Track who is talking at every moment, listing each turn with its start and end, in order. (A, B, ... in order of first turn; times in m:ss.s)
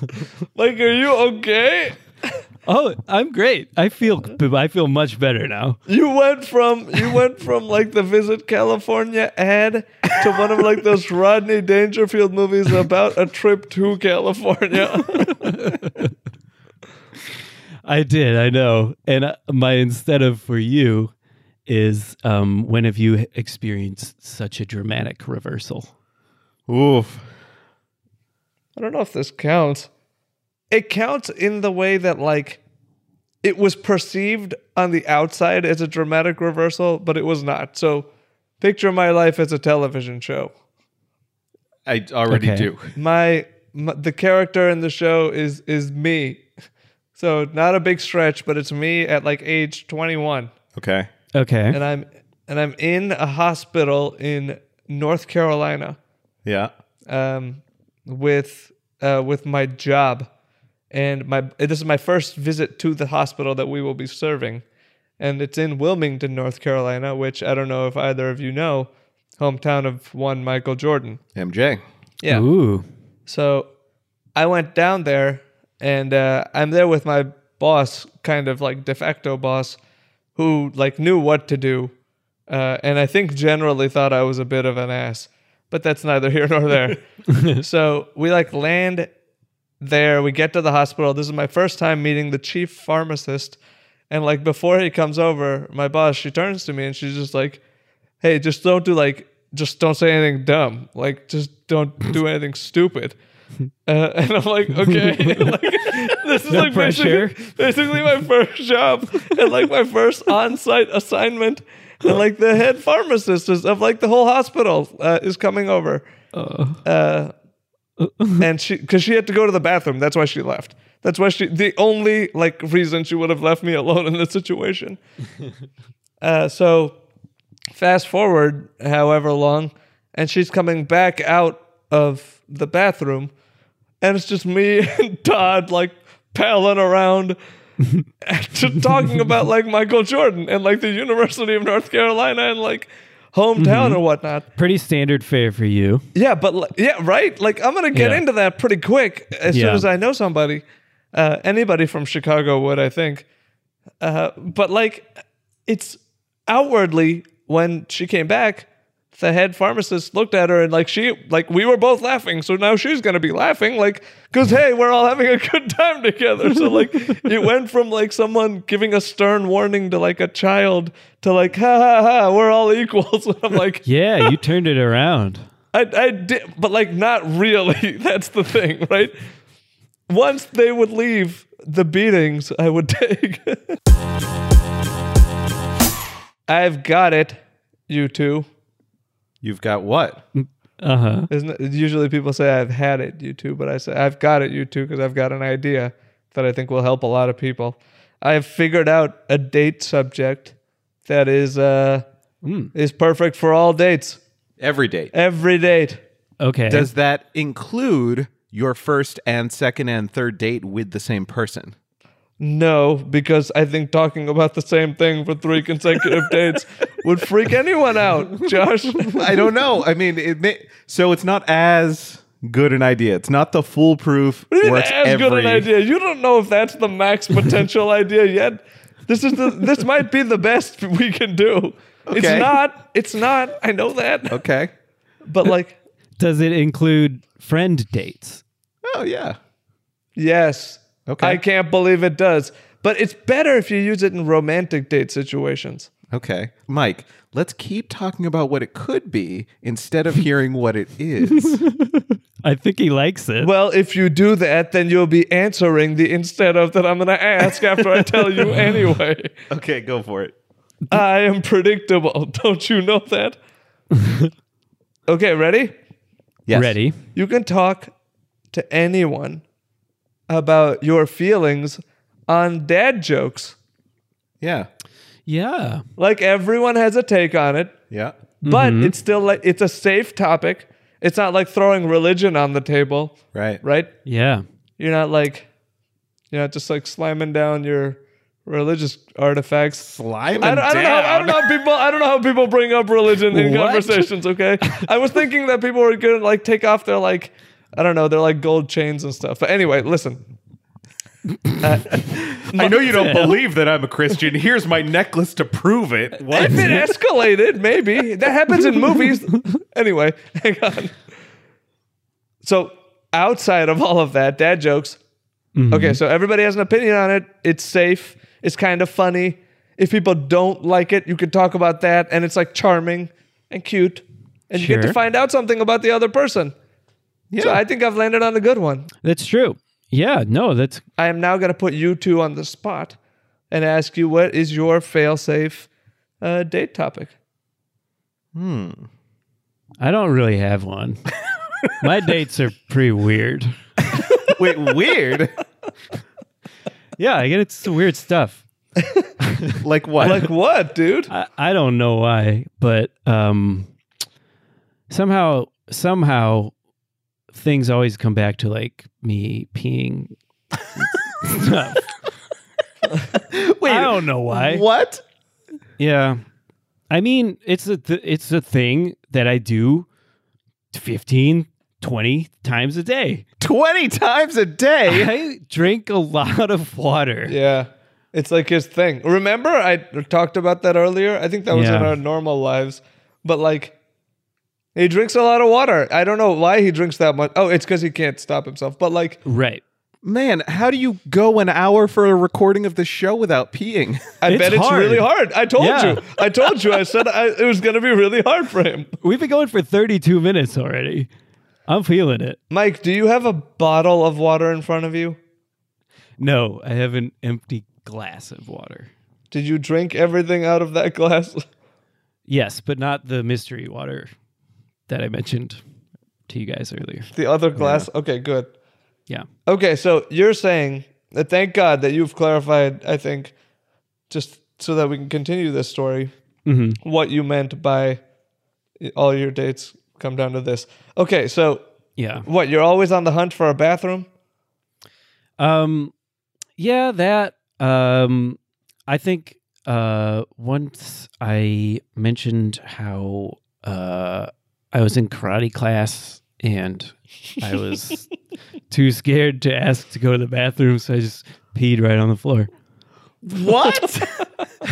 0:00.5-0:02.4 A
0:02.6-0:05.8 B
0:05.9-0:15.7 A
0:15.4-0:16.1 B
0:17.8-0:21.1 B
0:21.7-0:25.9 B
0:26.7-0:27.2 C
0:28.8-0:29.9 A
0:30.7-0:32.6 A
0:33.4-0:38.1 A
0:38.6-0:40.5 A
0:41.9-0:42.9 C
0:42.3-0:42.7 B
0:43.0-0:46.4 A
0:47.2-0:50.5 A
0:50.8-0:51.1 C
0:51.3-0:51.8 B
0:51.7-0:56.0 A
0:56.4-0:56.7 C
0:57.1-1:00.3 A
1:00.9-1:04.6 A
1:05.2-1:11.2 A
1:11.3-1:11.8 C
1:12.2-1:12.5 A
1:12.2-1:12.8 B
1:13.3-1:13.7 A
1:14.3-1:19.8 A
1:20.4-1:21.9 A
1:22.5-1:29.1 A
1:27.3-1:27.6 B
1:29.8-1:33.6 A
1:34.1-1:37.6 A
1:38.2-1:43.2 A
1:43.9-1:56.1 A
1:45.0-1:45.6 B
1:46.5-1:47.4 B
1:56.3-1:56.8 B
1:56.8-1:57.3 A
1:58.0-1:58.4 B
1:58.4-2:05.0 A
2:06.2-2:07.0 A
2:07.7-2:13.3 A
2:14.0-2:17.4 A
2:18.2-2:24.4 A
2:23.6-2:24.0 B
2:24.5-2:26.0 B
2:26.1-2:33.2 A
2:27.9-2:28.2 B
2:29.5-2:29.8 B
2:34.0-2:54.4 A
2:53.8-2:55.5 B
2:55.7-2:59.2 A
3:00.1-3:03.8 A
3:06.5-3:08.5 A
3:09.4-3:10.2 C
3:10.4-3:11.3 B
3:11.3-3:20.5 A
3:21.0-3:22.0 A
3:22.4-3:22.7 B
3:22.7-3:24.2 A
3:24.6-3:25.1 C
3:25.1-3:26.0 A
3:26.4-3:26.9 B
3:26.7-3:31.7 C
3:32.4-3:39.5 A
3:39.0-3:45.7 C
3:44.5-3:54.4 A
3:52.1-3:52.5 C
3:54.3-3:54.7 C
3:55.2-3:55.8 A
3:56.2-3:58.4 B
3:58.8-3:59.4 C
4:00.2-4:05.9 A
4:01.1-4:01.4 C
4:06.1-4:11.6 C
4:11.3-4:13.5 B
4:13.4-4:19.3 A
4:19.5-4:20.3 C
4:20.9-4:23.4 A
4:24.0-4:24.3 B
4:25.1-4:25.7 A
4:26.5-4:26.8 C
4:26.5-4:27.0 B
4:27.1-4:27.9 A
4:28.5-4:29.4 A
4:30.3-4:33.6 A
4:34.4-4:34.7 C
4:35.3-4:35.8 B
4:36.0-4:37.8 A
4:37.9-4:38.2 C
4:38.4-4:43.9 A
4:38.4-4:38.9 B
4:43.3-4:43.6 C
4:44.0-4:44.4 B
4:44.8-4:45.5 A
4:46.3-4:49.9 A
4:49.8-4:51.5 C
4:50.4-5:00.2 A
4:53.3-4:54.1 B
5:01.6-5:02.8 A
5:01.9-5:06.9 C
5:02.8-5:03.4 B
5:06.3-5:11.0 A
5:12.4-5:15.0 A
5:15.6-5:16.0 B
5:15.7-5:26.5 A
5:24.5-5:25.0 B
5:27.3-5:27.6 C
5:27.4-5:28.9 A
5:29.0-5:30.8 B
5:31.0-5:33.0 A
5:33.5-5:35.7 A
5:36.2-5:37.1 A
5:38.3-5:38.9 C
5:39.8-5:41.0 B
5:41.8-5:43.5 B
5:44.2-5:45.3 C
5:47.0-5:48.4 B
5:48.8-5:49.1 A
5:49.4-5:50.2 B
5:49.6-5:50.3 C
5:50.0-5:51.1 A
5:51.1-5:53.7 B
5:54.9-5:56.5 B
5:57.3-6:00.1 B
6:00.8-6:01.8 B
6:03.2-6:05.0 C
6:03.6-6:04.6 B
6:05.8-6:06.2 B
6:06.9-6:09.9 B
6:10.7-6:13.2 B
6:13.4-6:15.1 C
6:14.9-6:17.4 B
6:17.3-6:23.7 A
6:21.5-6:22.0 B
6:24.7-6:29.2 A
6:29.2-6:29.6 B
6:30.0-6:34.1 C
6:34.2-6:38.9 A
6:34.2-6:36.0 B
6:39.0-6:41.1 B
6:41.7-6:42.4 B
6:42.5-6:45.2 A
6:46.2-6:48.9 B
6:49.3-6:51.5 A
6:52.3-6:54.1 B
6:54.9-6:55.6 B
6:56.3-6:57.8 B
6:57.1-6:58.5 A
6:59.5-7:03.3 A
7:04.1-7:06.1 A
7:06.4-7:06.8 B
7:06.8-7:08.0 A
7:08.8-7:11.6 A
7:12.0-7:12.3 B
7:12.2-7:14.1 A
7:15.4-7:15.9 B
7:16.6-7:28.1 B
7:28.7-7:32.5 B
7:33.2-7:34.3 C